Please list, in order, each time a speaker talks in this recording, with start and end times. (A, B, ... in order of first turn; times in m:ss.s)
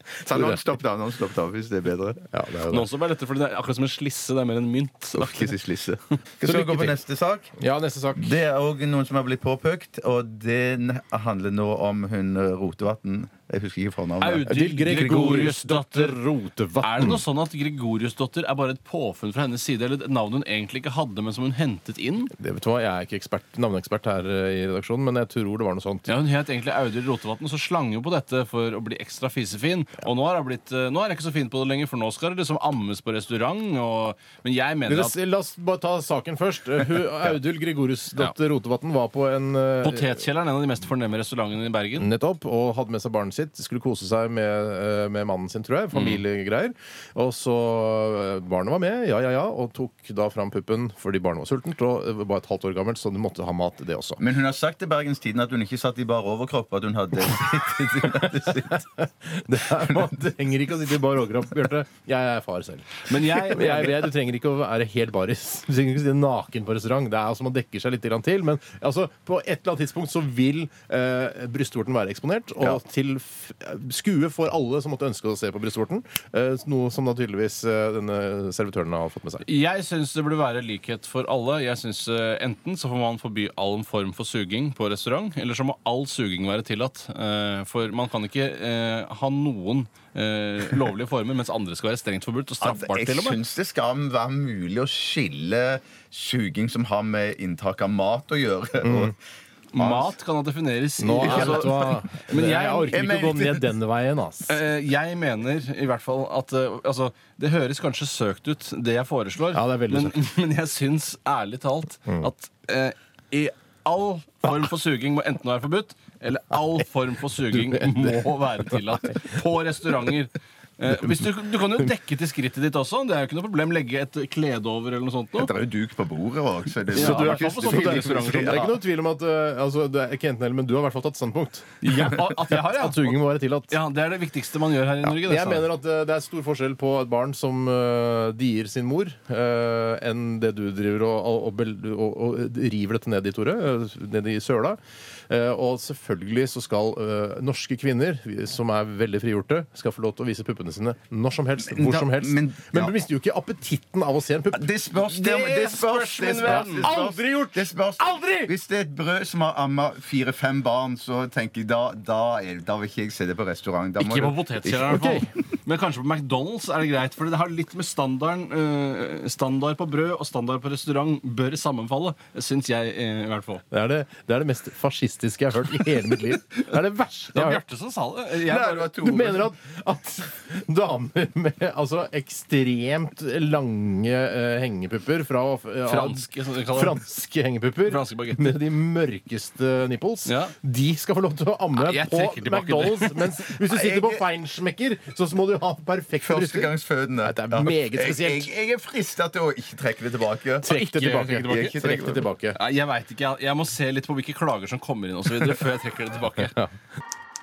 0:00.2-0:02.2 A
0:00.3-0:00.6 B
0:02.3-0:02.9 B
0:02.7-0:05.6 C
0:05.1-0:07.5 A
0:06.4-0:06.9 B
0:07.6-0:08.4 B
0:08.2-0:15.5 A
0:14.2-0:16.2 C
0:14.4-0:17.2 B
0:16.8-0:22.3 C
0:22.3-0:26.1 B
0:26.1-0:35.1 C
0:34.9-0:40.2 B
0:39.8-0:42.1 C
0:41.9-0:54.2 B
0:45.9-0:46.2 C
0:54.2-0:58.8 A
0:58.0-1:19.4 B
1:03.1-1:04.0 C
1:19.4-1:33.4 C
1:32.6-1:39.1 A
1:38.8-1:39.1 B
1:39.7-1:43.1 C
1:39.8-1:40.2 A
1:41.0-1:44.6 B
1:41.2-1:42.0 A
1:42.9-1:43.7 A
1:44.5-2:05.5 C
1:49.5-1:50.2 B
2:05.4-2:08.7 A
2:06.9-2:08.8 C
2:06.9-2:13.7 B
2:11.8-2:15.7 C
2:15.0-2:24.8 B
2:25.3-2:34.7 B
2:31.6-2:32.9 A
2:34.5-2:45.0 A
2:35.1-2:37.0 C
2:36.4-2:38.5 B
2:44.0-2:53.6 C
2:44.7-2:45.3 B
2:53.7-2:57.6 B
2:57.3-2:58.9 C
2:58.4-2:59.4 A
2:58.9-3:18.5 B
3:05.8-3:07.0 C
3:07.9-3:08.6 C
3:10.2-3:10.5 C
3:11.8-3:13.5 C
3:13.7-3:14.2 A
3:16.2-3:20.7 A
3:20.6-3:22.6 B
3:20.7-3:21.7 C
3:21.4-3:22.3 A
3:22.5-3:26.6 C